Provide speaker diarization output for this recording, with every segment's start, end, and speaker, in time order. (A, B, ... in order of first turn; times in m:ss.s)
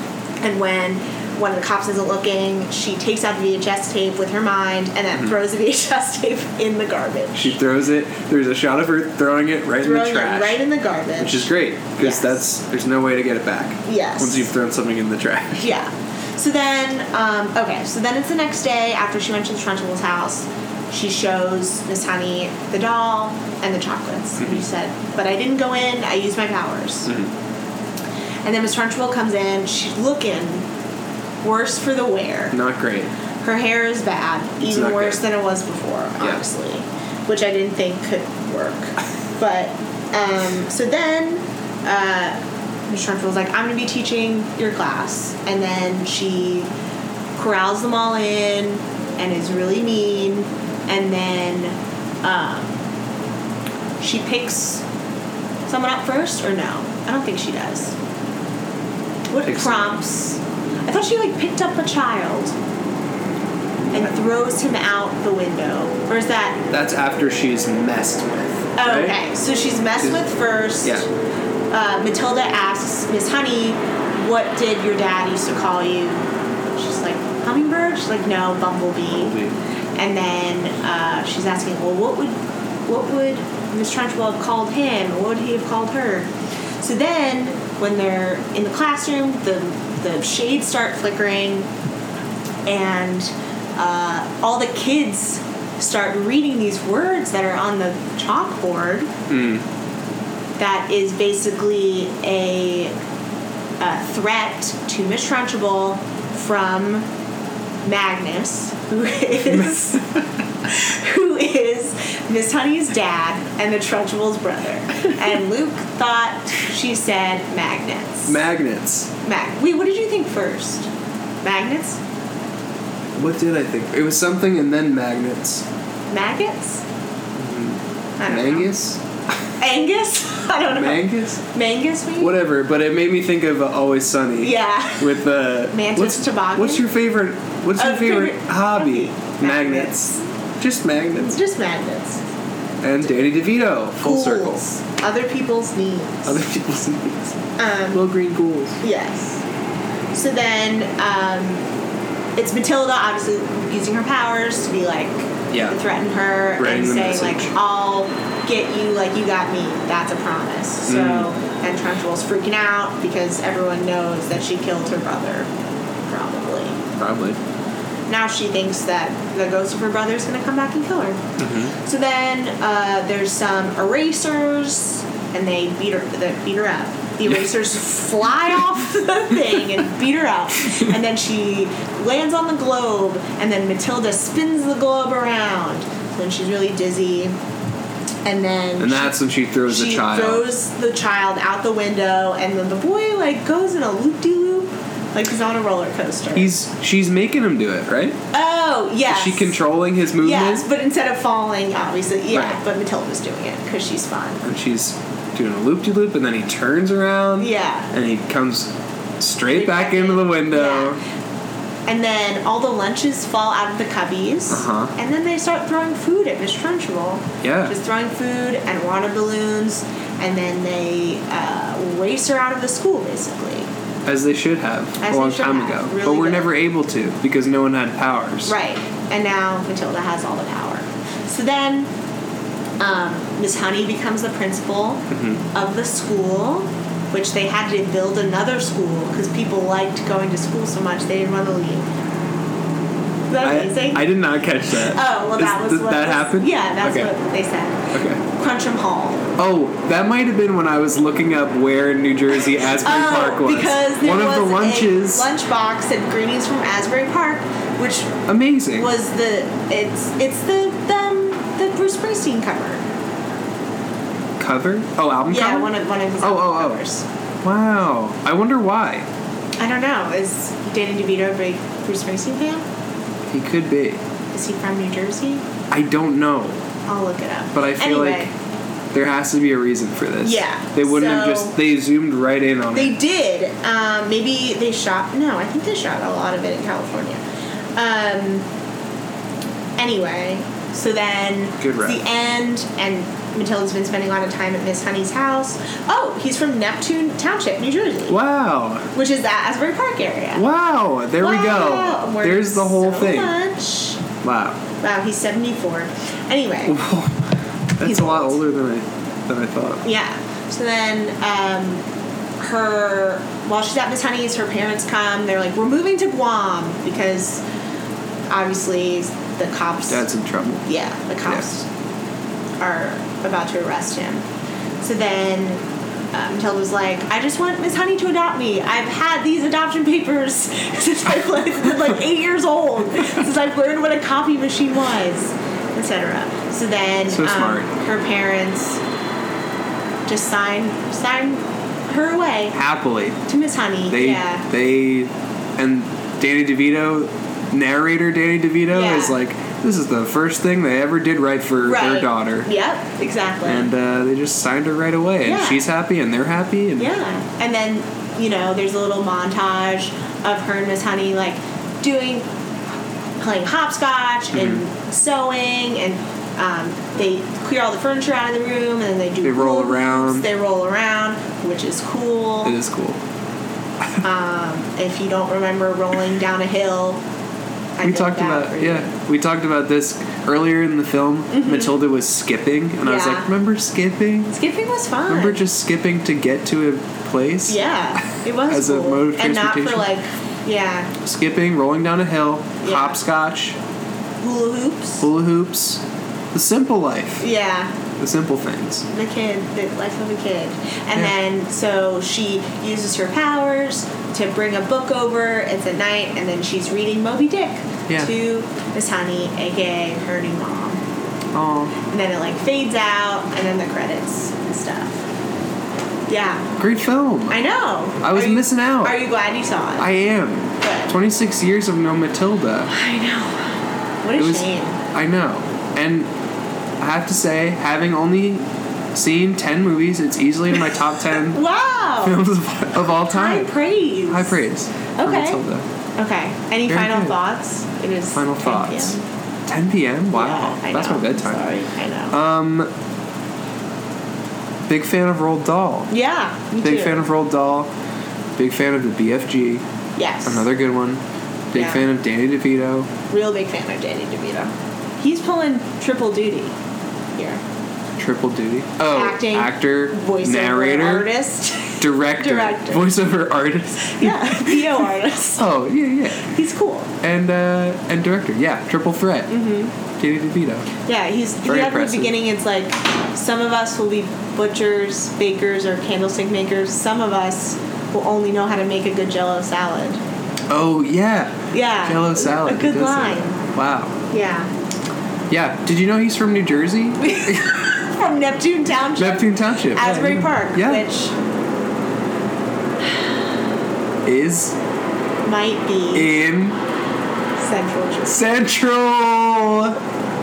0:00.4-0:07.6 A
0:07.4-0:10.6 B
0:09.8-0:12.4 A
0:11.2-0:15.7 B
0:13.9-0:14.5 A
0:15.6-0:27.1 A
0:28.4-0:30.7 A
0:31.4-0:32.6 A
0:32.5-0:33.1 B
0:33.4-0:42.4 A
0:34.6-0:35.2 B
0:42.9-0:46.7 A
0:47.4-0:52.7 A
0:54.0-0:54.8 A
0:55.7-0:58.0 A
0:59.3-1:02.5 A
0:59.4-1:00.0 B
1:03.9-1:04.1 B
1:03.9-1:06.6 A
1:06.7-1:09.2 B
1:08.8-1:11.1 A
1:11.7-1:19.4 A
1:19.1-1:19.6 B
1:20.0-1:22.4 A
1:22.9-1:26.3 A
1:26.8-1:31.7 A
1:32.7-1:39.1 A
1:39.3-1:39.6 B
1:40.6-1:42.9 A
1:43.8-1:47.0 A
1:47.8-1:50.0 A
1:49.5-1:50.2 B
1:50.6-1:58.4 A
1:58.3-1:59.1 B
1:59.2-2:00.9 A
2:01.4-2:02.0 A
2:03.2-2:05.6 B
2:06.1-2:06.8 A
2:07.4-2:09.0 B
2:08.2-2:08.7 A
2:09.6-2:12.4 A
2:10.7-2:11.4 B
2:12.2-2:21.4 B
2:14.4-2:16.8 A
2:17.8-2:20.2 A
2:21.2-2:22.2 A
2:22.8-2:24.6 B
2:24.0-2:26.4 A
2:26.3-2:27.4 B
2:27.6-2:28.0 A
2:27.9-2:28.8 B
2:28.8-2:29.4 A
2:30.1-2:31.6 A
2:32.4-2:45.5 A
2:35.5-2:35.8 B
2:36.6-2:37.5 B
2:40.9-2:41.3 B
2:46.1-2:46.8 A
2:47.0-2:47.4 B
2:48.1-2:51.2 A
2:51.4-2:51.7 B
2:51.8-3:07.4 A
3:08.2-3:09.2 A
3:08.8-3:10.5 B
3:09.7-3:16.5 A
3:16.4-3:18.2 B
3:18.3-3:19.6 A
3:19.1-3:20.7 B
3:20.2-3:24.4 A
3:22.3-3:22.6 B
3:24.4-3:31.0 B
3:27.4-3:27.9 A
3:29.5-3:31.0 A
3:31.9-3:43.7 A
3:34.5-3:34.9 B
3:37.4-3:37.7 B
3:44.1-3:48.5 B
3:45.0-3:46.5 A
3:48.5-3:51.9 A
3:52.8-3:55.0 A
3:55.1-3:55.4 B
3:55.5-4:01.9 A
4:03.3-4:04.1 A
4:03.4-4:07.1 B
4:04.9-4:07.8 A
4:07.9-4:08.2 B
4:08.3-4:09.3 A
4:09.4-4:15.3 B
4:12.8-4:18.2 A
4:18.3-4:18.9 B
4:18.7-4:22.8 A
4:24.4-4:26.8 B
4:25.3-4:27.0 A
4:27.4-4:29.0 B
4:29.6-4:32.6 A
4:33.3-4:34.0 B
4:34.3-4:35.4 A
4:35.7-4:36.6 B
4:36.9-4:38.3 A
4:37.5-4:38.3 B
4:38.9-4:43.0 B
4:40.2-4:41.6 A
4:42.7-4:47.2 A
4:47.8-4:48.4 A
4:49.8-4:58.2 A
4:51.6-4:52.0 B
4:58.1-4:58.9 B
4:58.9-5:00.4 A
5:00.4-5:03.4 B
5:01.2-5:04.0 A
5:04.2-5:04.6 B
5:04.8-5:06.8 A
5:06.7-5:07.2 B
5:07.8-5:09.8 B
5:07.8-5:08.4 A
5:09.8-5:11.8 A
5:12.4-5:17.4 A
5:18.3-5:20.1 A
5:19.9-5:20.6 B
5:20.7-5:21.6 A
5:22.6-5:24.2 A
5:24.8-5:38.8 A
5:37.1-5:37.7 B
5:40.1-5:42.5 A
5:42.5-5:43.2 B
5:43.3-5:44.4 A
5:43.9-5:52.5 B
5:48.7-5:49.2 A
5:51.6-5:53.7 A
5:53.5-5:57.0 B
5:55.2-5:55.6 A
5:56.8-6:02.3 A
6:03.2-6:12.6 A
6:04.3-6:04.6 B
6:09.2-6:10.3 B
6:12.4-6:13.0 B
6:14.0-6:17.0 A
6:17.8-6:18.9 A
6:17.8-6:24.3 B
6:21.3-6:21.7 A
6:22.8-6:23.3 A
6:24.3-6:25.4 A
6:25.1-6:27.6 B
6:27.5-6:30.9 A
6:28.5-6:29.9 B
6:31.0-6:33.6 B
6:32.6-6:33.0 A
6:34.2-6:35.1 A
6:35.0-6:35.8 B
6:36.3-6:37.2 B
6:37.2-6:37.7 A
6:38.0-6:38.9 B
6:38.9-6:50.8 A
6:51.3-6:51.7 B
6:51.9-6:55.0 A
6:56.1-6:56.5 A
6:56.6-6:57.4 B
6:57.3-6:59.8 A
6:58.0-6:59.0 B
6:59.8-7:02.7 B
7:00.6-7:00.9 A
7:02.7-7:04.8 A
7:04.2-7:06.1 B
7:06.8-7:11.4 B
7:11.3-7:12.2 A
7:12.0-7:13.5 B
7:13.1-7:14.4 A
7:14.1-7:15.7 B
7:15.0-7:15.4 A
7:16.0-7:19.0 A
7:16.7-7:17.2 B
7:18.2-7:21.5 B
7:20.1-7:22.2 A
7:22.1-7:22.7 B
7:24.7-7:25.9 B
7:25.9-7:27.0 A
7:26.6-7:27.7 B
7:28.4-7:29.6 B
7:30.0-7:30.4 A
7:30.3-7:31.0 B
7:31.5-7:32.9 B
7:31.6-7:31.8 A
7:33.1-7:36.5 A
7:37.2-7:37.4 A
7:38.0-7:41.1 B
7:38.9-7:42.9 A
7:41.8-7:44.9 B
7:44.0-7:45.4 A
7:45.4-7:46.3 B
7:46.2-7:46.9 A
7:47.0-7:49.3 B
7:49.3-7:49.7 A
7:50.0-7:50.7 B
7:50.9-8:00.0 A
7:51.4-7:52.1 B
8:00.5-8:04.0 B
8:01.5-8:03.4 A
8:04.1-8:04.5 A
8:05.3-8:07.5 B
8:07.0-8:11.1 A
8:09.0-8:10.8 B
8:14.1-8:14.6 B
8:15.2-8:16.2 A
8:15.9-8:16.6 B
8:17.4-8:18.2 A
8:18.1-8:19.8 B